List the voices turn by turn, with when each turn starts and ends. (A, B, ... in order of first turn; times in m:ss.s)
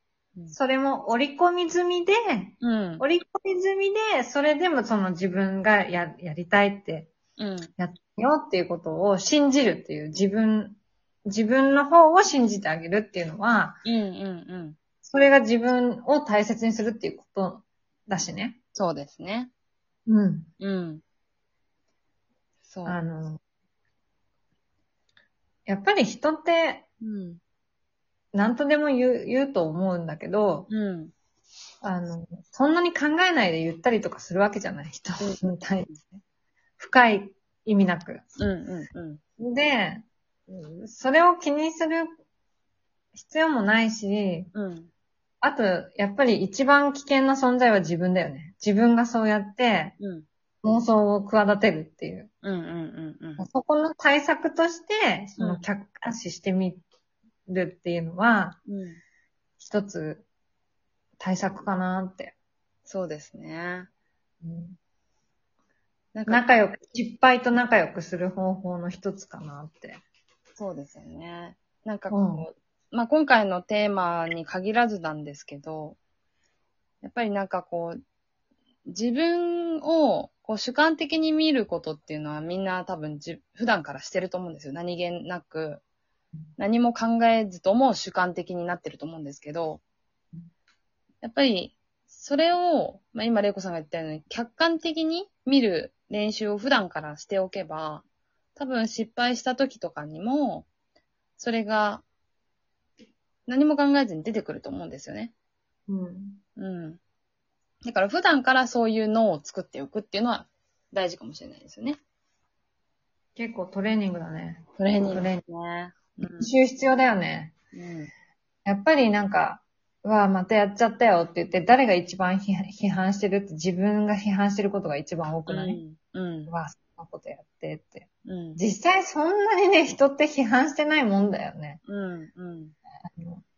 0:00.5-0:07.1 A
0:02.6-0:03.0 B
0:07.4-0:07.7 B
0:07.8-0:13.8 A
0:13.8-0:14.8 B
0:15.0-0:18.6 A
0:18.8-0:19.5 B
0:20.1-0:20.5 A
0:20.6-0:21.0 B
0:22.7-0:23.0 B
0:22.8-0:23.4 A
0:25.7-0:26.8 A
0:27.0-0:27.4 B
0:28.3-0:30.7 A
0:30.7-0:31.1 B
0:31.8-0:36.2 A
0:36.8-0:38.2 A
0:38.4-0:39.2 B
0:39.4-0:42.1 A
0:43.2-0:44.5 A
0:44.5-0:44.9 B
0:45.4-0:49.9 A
0:50.0-0:50.2 B
0:50.6-0:52.3 A
0:52.4-0:53.4 B
0:53.4-0:56.8 A
0:55.4-0:55.6 B
0:57.5-0:58.6 A
0:58.7-0:59.0 B
0:59.6-1:00.2 A
1:01.2-1:02.3 A
1:02.9-1:03.9 B
1:04.4-1:04.8 A
1:06.1-1:06.4 B
1:06.3-1:10.0 A
1:10.6-1:16.0 B
1:12.1-1:12.4 A
1:17.0-1:18.0 B
1:18.9-1:25.8 B
1:26.6-1:29.8 B
1:31.2-1:38.0 B
1:38.6-1:40.6 B
1:41.4-1:42.0 B
1:43.5-1:45.3 B
1:45.9-1:46.4 A
1:46.6-1:47.0 B
1:47.8-1:52.0 B
1:53.4-1:55.4 A
1:54.8-1:56.5 B
1:56.4-1:57.5 A
1:57.7-1:58.1 B
1:58.6-2:05.8 A
2:05.5-2:06.5 B
2:06.5-2:11.8 A
2:08.2-2:08.6 B
2:11.8-2:12.7 B
2:13.1-2:13.4 A